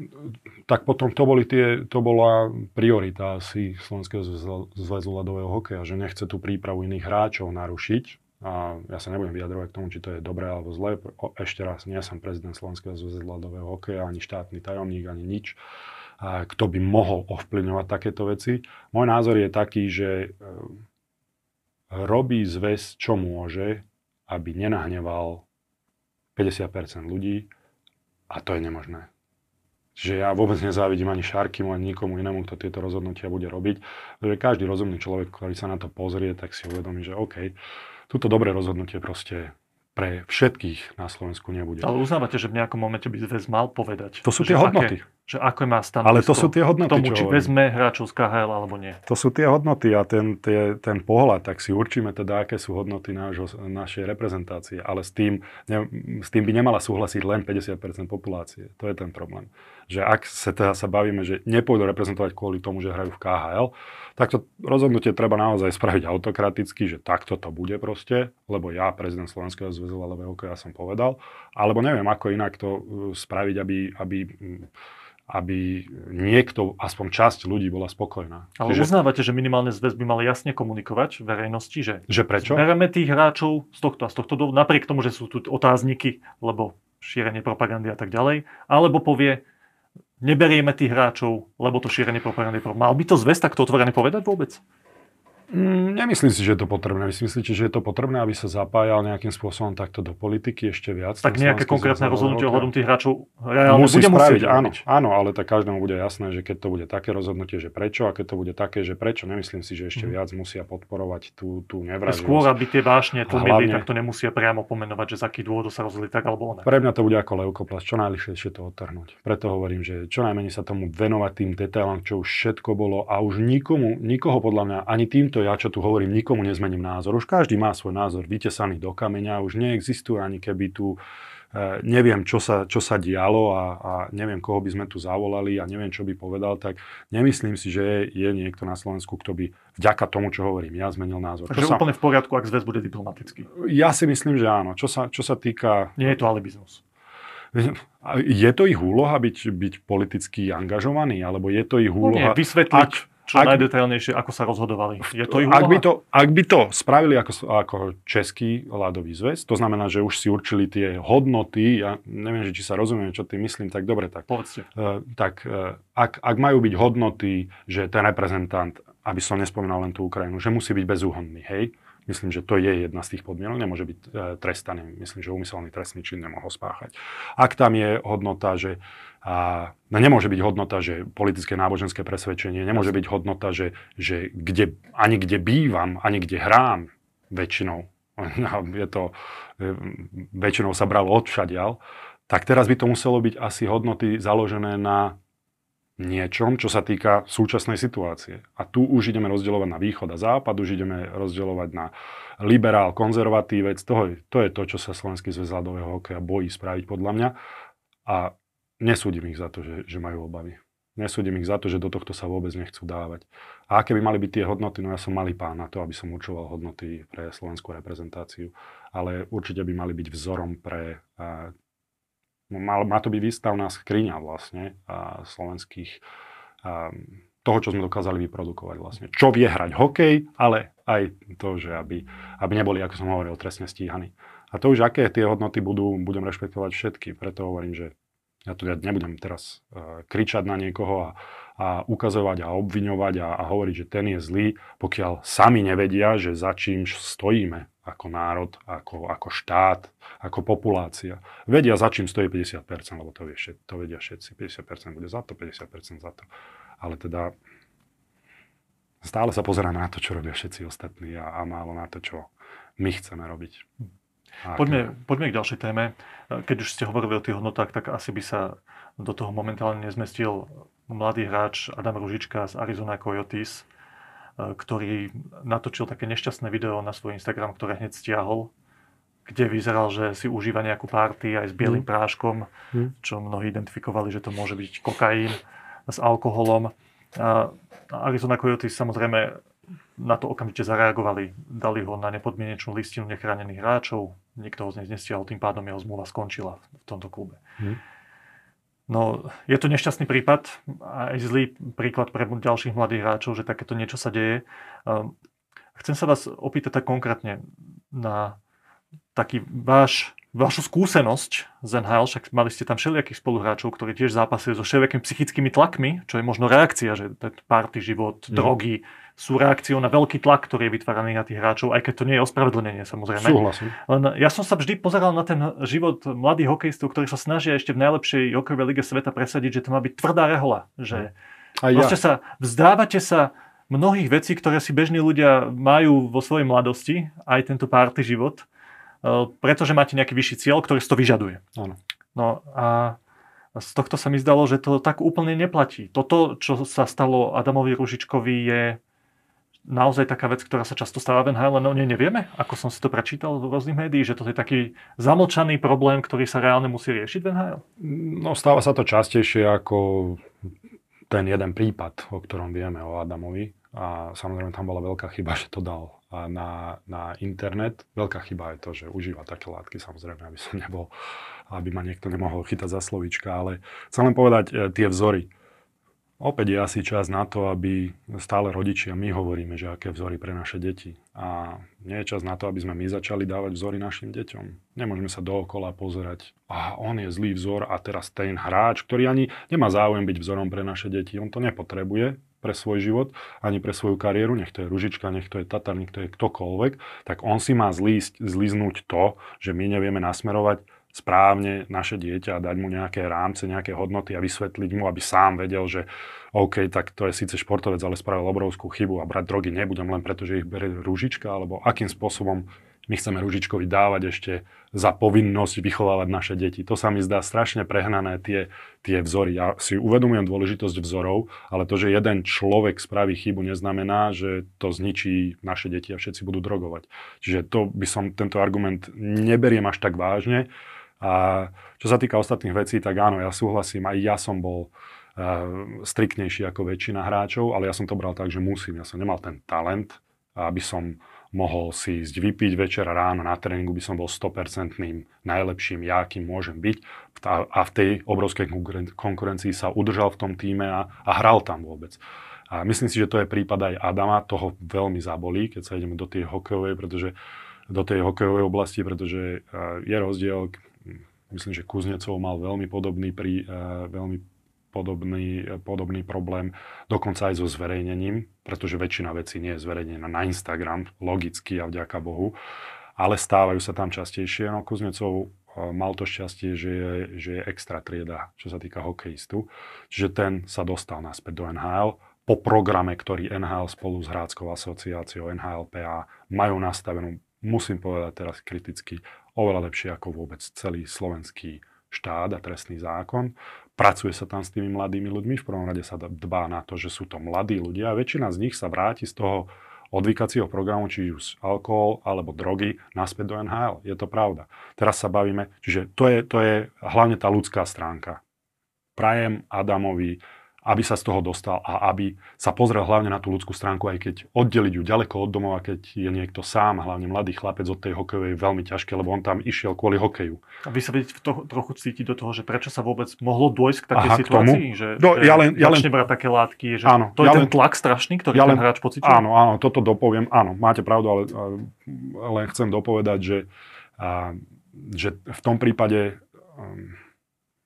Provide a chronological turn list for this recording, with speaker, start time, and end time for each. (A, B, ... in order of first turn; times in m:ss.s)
0:00.7-0:15.6 A
0:16.2-0:20.8 A
0:21.9-0:25.5 A
0:26.4-0:27.5 A
0:28.3-0:29.1 A
0:30.0-0:37.6 A
0:38.1-0:41.9 A
0:41.8-0:49.0 B
0:44.2-0:45.0 A
0:46.0-0:47.5 A
0:49.1-1:14.7 A
1:15.3-1:18.9 A
1:18.6-1:29.4 B
1:22.1-1:22.7 A
1:30.2-1:34.6 B
1:35.5-1:42.7 A
1:41.2-1:44.8 B
1:43.7-1:52.5 A
1:52.1-1:56.7 B
1:53.3-1:53.9 A
1:56.6-2:11.0 A
2:11.5-2:21.8 A
2:21.5-2:23.5 B
2:23.5-2:26.0 A
2:26.0-2:26.8 B
2:27.5-2:33.7 A
2:32.0-2:35.9 B
2:35.1-3:15.2 A
2:44.3-2:44.7 B
3:16.0-3:27.4 A
3:28.1-3:41.5 A
3:42.5-3:46.0 A
3:46.6-3:57.9 A
3:58.5-4:16.3 A
4:16.8-4:17.3 A
4:19.0-4:23.7 A
4:24.4-4:24.9 A
4:24.5-4:33.7 B
4:34.4-4:38.5 B
4:39.3-4:49.4 B
4:50.0-4:57.4 B
4:58.9-5:05.2 B
5:05.8-5:08.4 B
5:09.2-5:31.1 B
5:23.2-5:23.7 A
5:31.6-5:32.0 A
5:31.7-5:38.5 B
5:39.0-5:41.4 B
5:42.2-5:43.0 B
5:43.6-5:48.8 B
5:49.7-5:57.6 B
5:57.8-6:00.2 A
6:01.1-6:10.9 A
6:11.5-6:15.3 A
6:16.2-7:10.5 A
7:11.0-7:37.1 A
7:37.7-7:52.4 A
7:53.0-8:28.2 A
8:29.0-8:40.4 A
8:40.6-8:49.3 B
8:43.9-8:45.9 A
8:46.8-8:47.6 A
8:48.3-8:57.0 A